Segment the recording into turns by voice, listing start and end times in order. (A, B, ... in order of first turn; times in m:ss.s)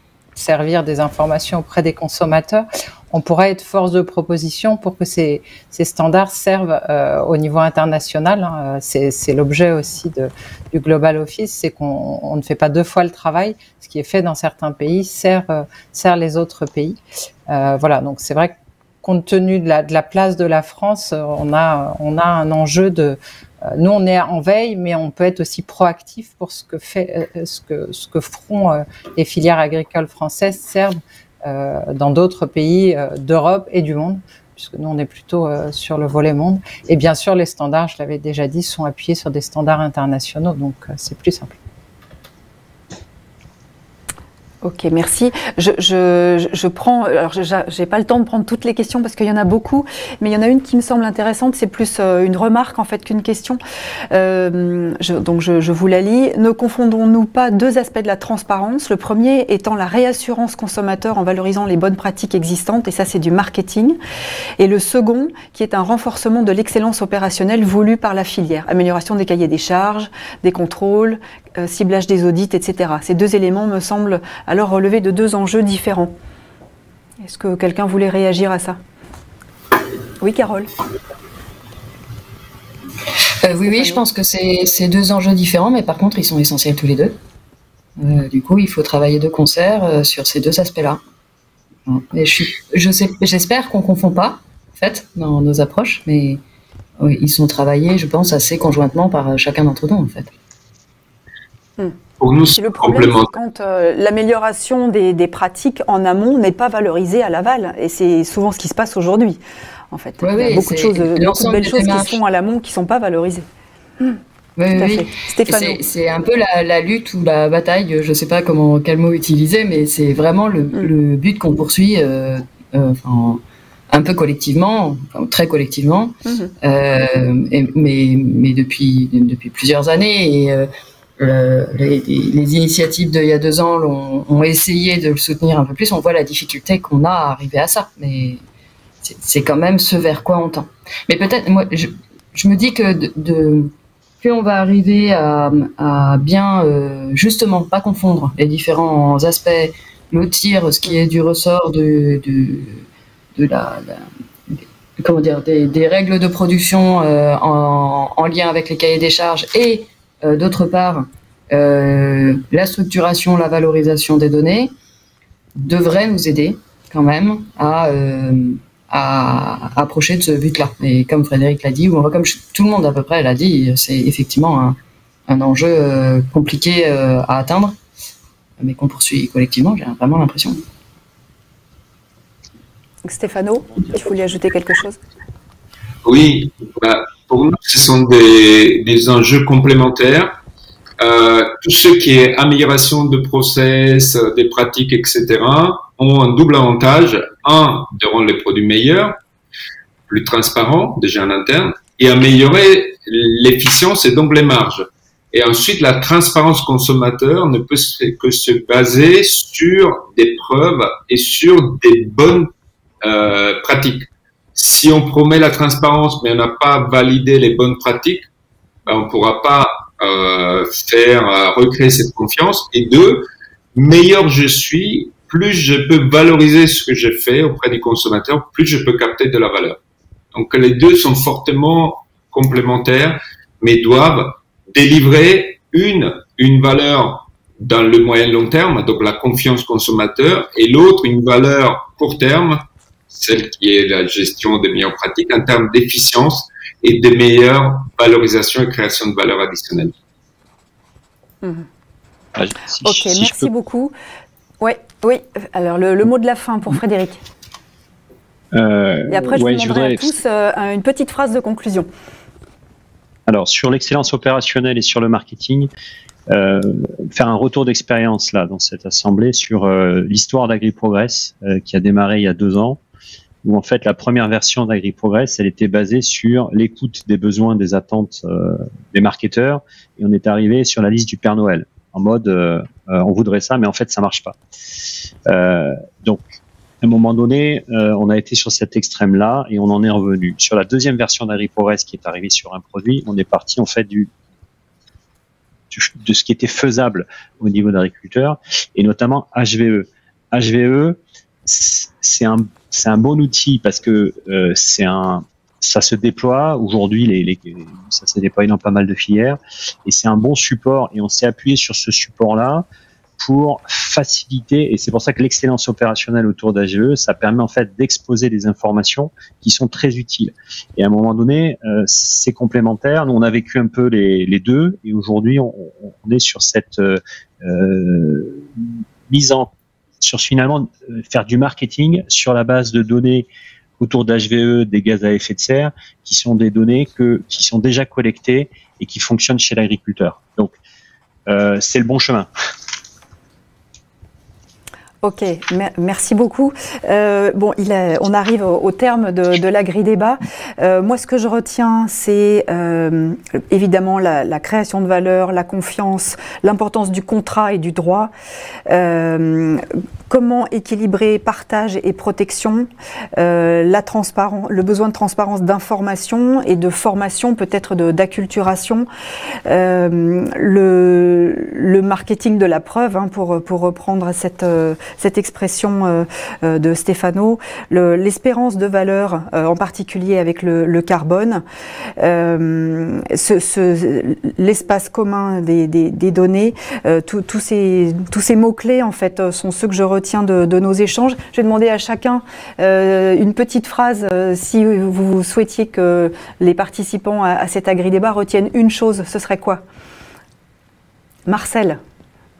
0:00.4-0:23.2 A
0:23.7-0:41.6 A
0:44.6-0:53.6 B
0:54.1-1:04.0 B
1:04.6-1:16.1 B
1:17.2-1:18.8 B
1:20.2-1:20.7 B
1:23.4-1:27.2 C
1:23.7-1:24.0 B
1:28.0-1:31.0 C
1:31.9-1:36.4 C
1:37.0-1:40.3 C
1:42.2-1:43.3 D
1:42.6-1:49.4 B
1:49.9-1:53.4 B
1:50.2-1:52.2 C
1:54.6-2:10.7 C
1:54.7-1:55.8 B
2:06.3-2:06.5 B
2:11.2-2:18.4 C
2:19.0-2:32.8 C
2:33.4-2:44.7 C
2:45.6-2:54.8 C
2:55.3-2:57.8 C
2:58.6-3:00.6 C
3:03.0-3:05.0 B
3:06.0-3:10.3 D
3:11.0-3:19.2 D
3:20.1-3:32.5 D
3:33.0-3:38.3 D
3:38.9-3:49.8 D
3:50.3-4:09.9 D
4:12.4-4:13.5 E
4:12.8-4:13.9 B
4:14.6-4:17.2 B
4:18.5-4:20.1 E
4:19.1-4:21.9 B
4:23.3-4:25.7 E
4:26.3-4:32.8 E
4:33.4-4:44.4 E
4:45.3-4:46.3 E
4:46.8-4:54.1 E
4:55.7-5:12.7 E
5:13.2-5:33.3 E
5:33.8-5:40.5 E
5:41.3-5:42.3 E
5:45.0-5:58.1 B
5:58.7-6:08.9 B
6:09.5-6:21.4 B
6:22.0-6:39.6 B
6:41.3-6:41.8 B